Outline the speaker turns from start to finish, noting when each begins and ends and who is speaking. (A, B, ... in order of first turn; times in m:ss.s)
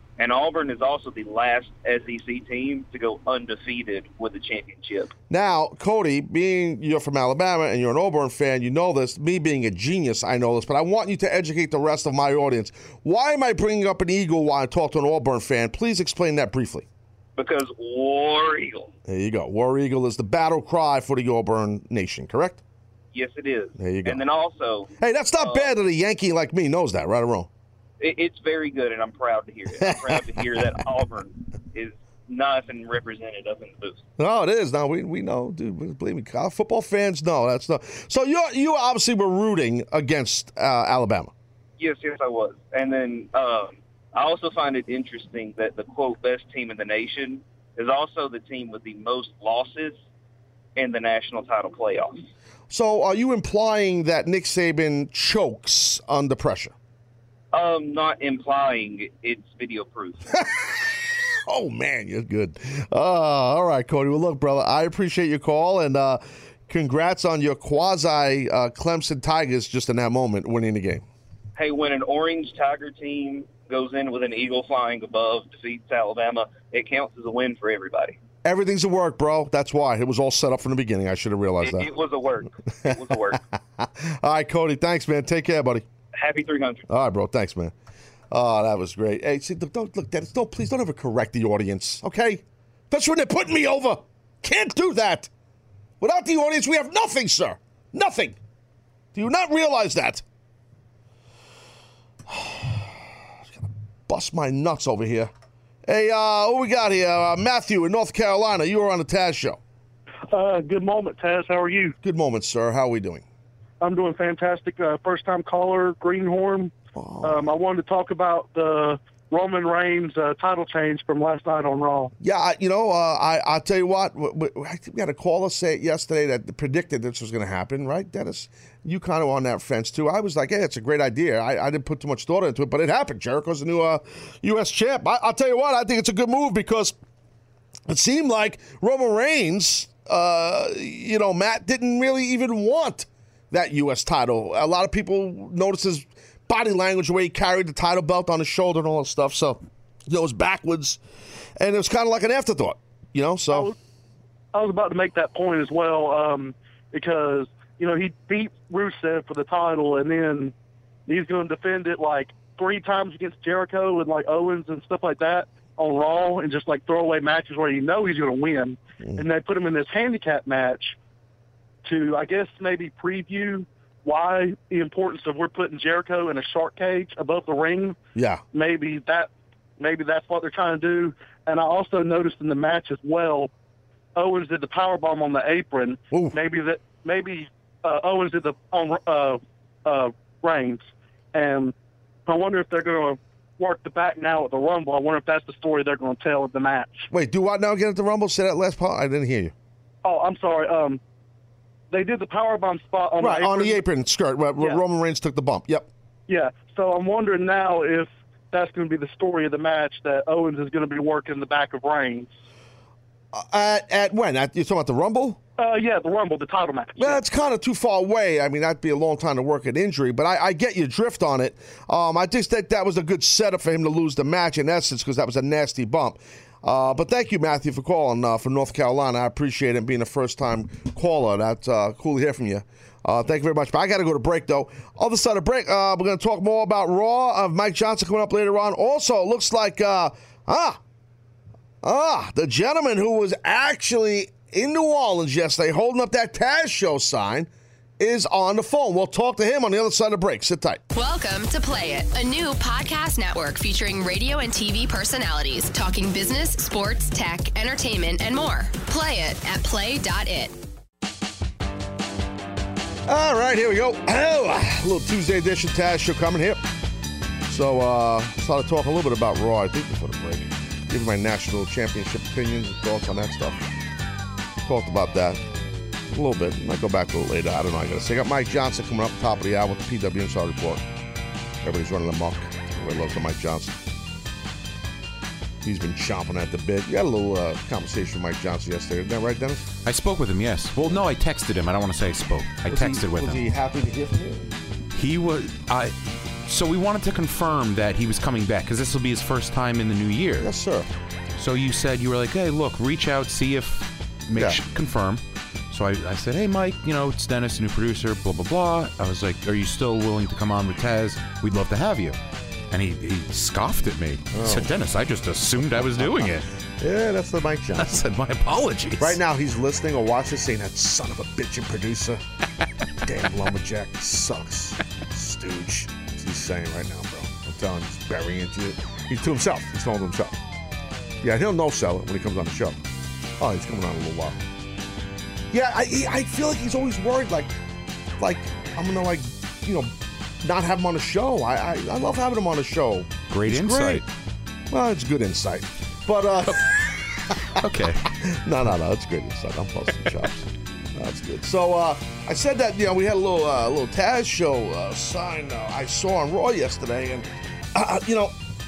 0:00.2-0:05.1 A
0:05.3-0:16.8 B
0:17.4-0:18.9 A
0:19.1-0:22.6 B
0:23.1-0:25.7 A
0:23.8-0:24.2 B
0:25.0-0:27.5 B
0:28.0-0:34.0 A
0:29.8-0:30.6 B
0:34.2-0:41.3 B
0:41.8-0:50.0 A
0:50.8-0:52.2 A
0:52.7-0:56.7 B
0:57.5-1:00.3 A
1:00.3-1:11.0 B
1:11.5-1:18.2 A
1:18.4-1:21.9 B
1:21.6-1:23.4 A
1:22.8-1:25.8 B
1:26.1-1:26.9 A
1:26.9-1:27.7 B
1:28.3-1:35.3 B
1:36.0-1:38.4 B
1:39.1-1:40.2 B
1:42.3-1:45.3 B
1:45.8-1:49.6 B
1:50.3-1:52.0 C
1:52.0-1:53.2 B
1:53.8-2:02.1 C
1:56.9-1:57.5 B
2:02.2-2:16.9 B
2:17.9-2:31.0 B
2:31.6-2:33.7 B
2:33.5-2:33.7 C
2:34.5-2:40.5 C
2:41.1-2:51.0 C
2:49.0-2:49.2 B
2:51.8-2:58.0 C
2:58.2-2:58.4 B
2:58.5-3:03.5 C
3:04.1-3:11.7 C
3:06.1-3:06.4 B
3:12.2-3:17.0 C
3:17.1-3:19.5 B
3:20.0-3:21.0 C
3:21.9-3:23.8 C
3:23.2-3:25.9 B
3:26.3-3:32.3 C
3:33.3-3:35.4 B
3:35.6-3:37.2 C
3:37.0-4:00.8 B
4:01.8-4:10.8 B
4:10.9-4:20.5 D
4:23.1-4:26.6 B
4:27.4-4:33.7 B
4:34.6-4:35.4 B
4:36.1-4:40.8 B
4:41.6-4:43.8 B
4:45.6-4:49.7 B
4:49.8-4:53.4 E
4:52.7-4:54.5 B
4:54.9-5:00.5 E
5:00.4-5:00.9 B
5:01.4-5:12.2 E
5:12.7-5:16.4 E
5:14.3-5:14.7 B
5:15.7-5:18.0 B
5:17.8-5:19.2 E
5:19.0-5:22.2 B
5:23.0-5:30.3 B
5:31.2-5:32.8 B
5:33.4-5:34.4 B
5:35.5-5:37.5 B
5:38.2-5:39.9 B
5:40.4-5:44.0 B
5:43.3-5:44.0 E
5:44.7-5:50.3 B
5:47.5-5:48.1 E
5:50.9-5:58.4 B